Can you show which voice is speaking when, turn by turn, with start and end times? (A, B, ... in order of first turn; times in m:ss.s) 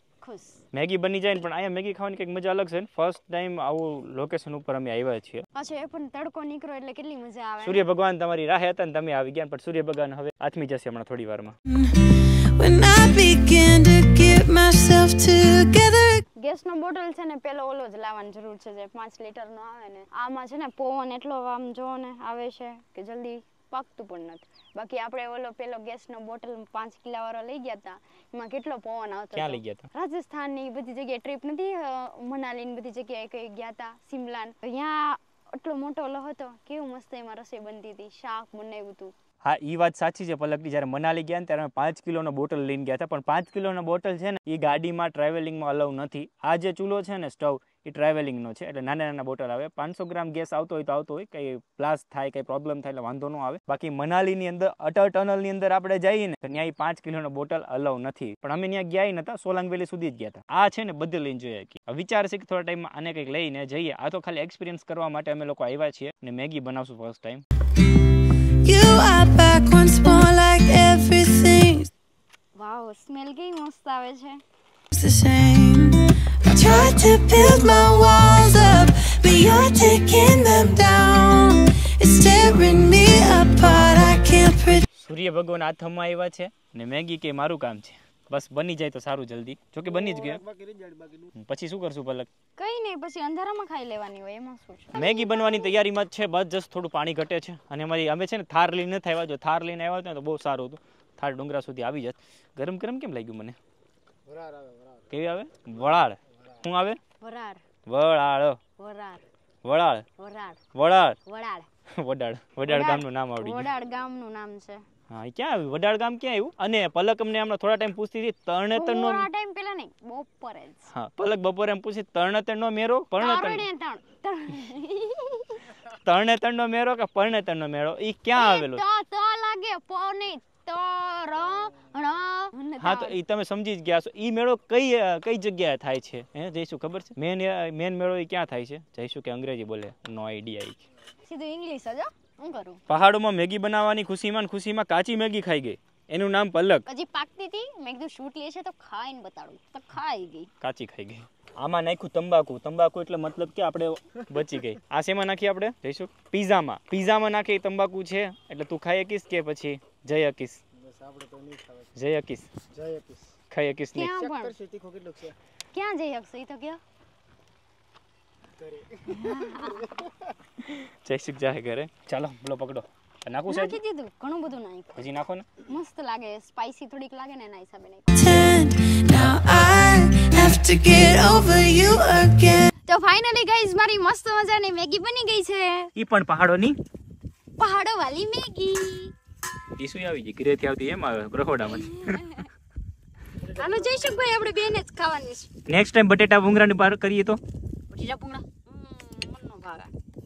0:00.2-0:00.6 A
0:00.7-0:05.4 B
0:05.5-0:07.8 A
0:07.6-0:11.6 B
0:11.7-0:16.2 C
0:16.4-0:39.1 A
0:29.3-0:29.9 B
0:39.4-1:07.4 B
1:08.6-1:11.9 C
1:12.6-1:14.4 A
1:14.9-1:24.9 C
1:25.0-1:30.4 B
1:29.9-1:31.3 D
1:31.4-1:32.3 B
1:32.6-1:35.7 A
1:34.9-1:43.6 B
1:44.3-1:45.0 D
1:45.1-1:47.0 B
1:47.2-1:47.6 A
1:47.9-1:48.6 B
1:48.8-1:49.2 A
1:49.6-1:50.1 B
1:50.2-1:50.6 A
1:50.8-1:51.2 B
1:51.2-1:51.7 A
1:51.9-1:53.7 B
1:52.7-1:54.8 A
1:55.1-1:59.3 B
1:58.8-2:00.9 A
2:00.9-2:03.7 B
2:03.2-2:05.8 A
2:05.8-2:08.8 B
2:08.3-2:13.2 A
2:11.5-2:11.9 D
2:12.8-2:20.8 B
2:21.2-2:22.8 A
2:22.9-2:26.8 B
2:26.9-2:30.5 A
2:30.6-2:40.6 B
2:40.8-2:41.9 D
2:42.0-2:42.5 B
2:42.7-2:43.3 D
2:43.5-2:44.2 B
2:43.9-2:44.6 A
2:44.2-2:45.4 D
2:45.7-2:46.8 A
2:48.6-2:50.1 D
2:49.1-2:50.0 A
2:50.6-2:53.8 B
2:53.5-2:55.0 A
2:55.0-2:55.5 B
2:55.6-2:58.1 A
2:58.2-3:02.7 C
3:02.9-3:05.9 A
3:06.0-3:06.8 B
3:07.6-3:09.1 A
3:09.8-3:12.2 B
3:11.7-3:12.5 A
3:13.4-3:14.1 D
3:13.5-3:15.5 A
3:15.7-3:17.4 B
3:17.9-3:19.9 A